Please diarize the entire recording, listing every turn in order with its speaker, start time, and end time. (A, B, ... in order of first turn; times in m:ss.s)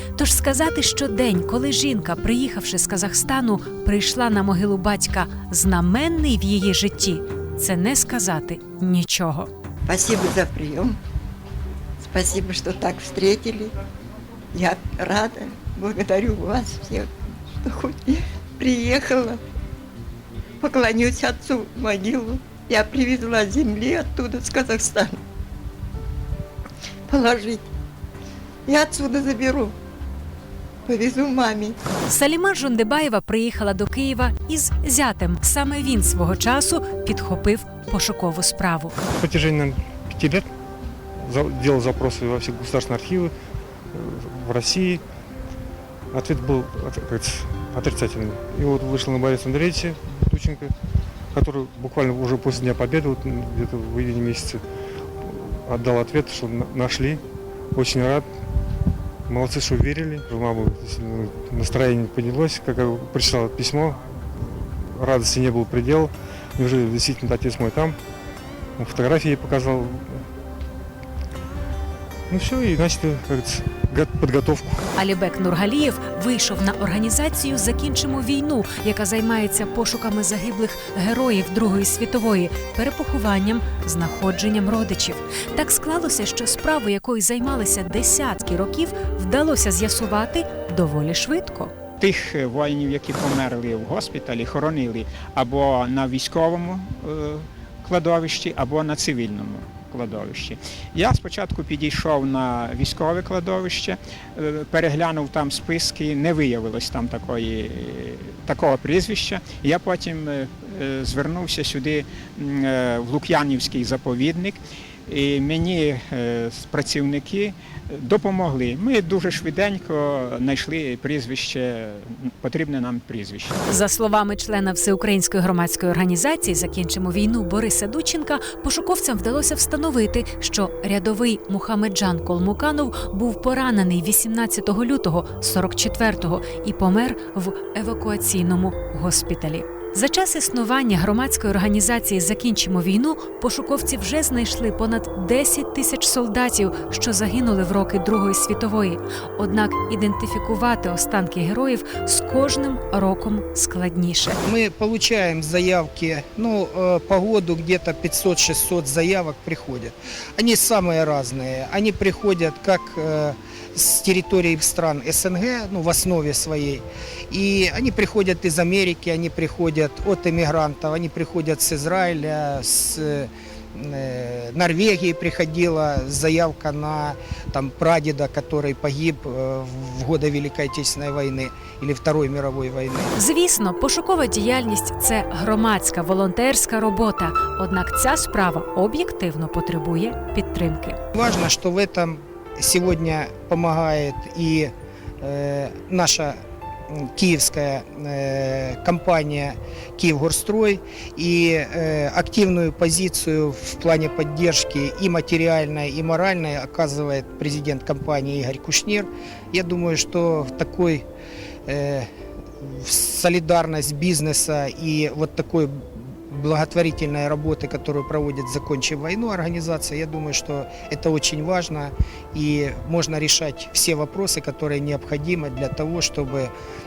0:00.2-0:09.5 A
0:09.9-0:11.0 B
0:12.0-0:13.7 B
0:14.5-0:19.4 B
0:20.6-0:25.2 B
0:27.1-0:27.7 B
0:28.7-0:29.8 B
0:30.9-0:31.8 B
0:32.1-0:39.0 A
0:39.1-0:40.5 C
0:41.2-0:43.3 C
0:43.9-0:45.0 C
0:46.1-0:50.7 C
0:51.3-0:54.6 C
0:55.2-0:57.2 C
0:57.8-0:58.3 C
0:59.3-1:04.0 C
1:04.6-1:08.0 C
1:08.8-1:10.2 C
1:12.3-1:14.9 C
1:15.0-1:31.7 A
1:32.0-2:03.6 D
2:03.7-2:34.4 A
2:34.4-3:03.1 E
3:03.2-3:11.0 A
3:11.1-3:16.4 E
3:16.9-3:31.0 E
3:31.7-3:32.1 E
3:32.6-3:46.5 E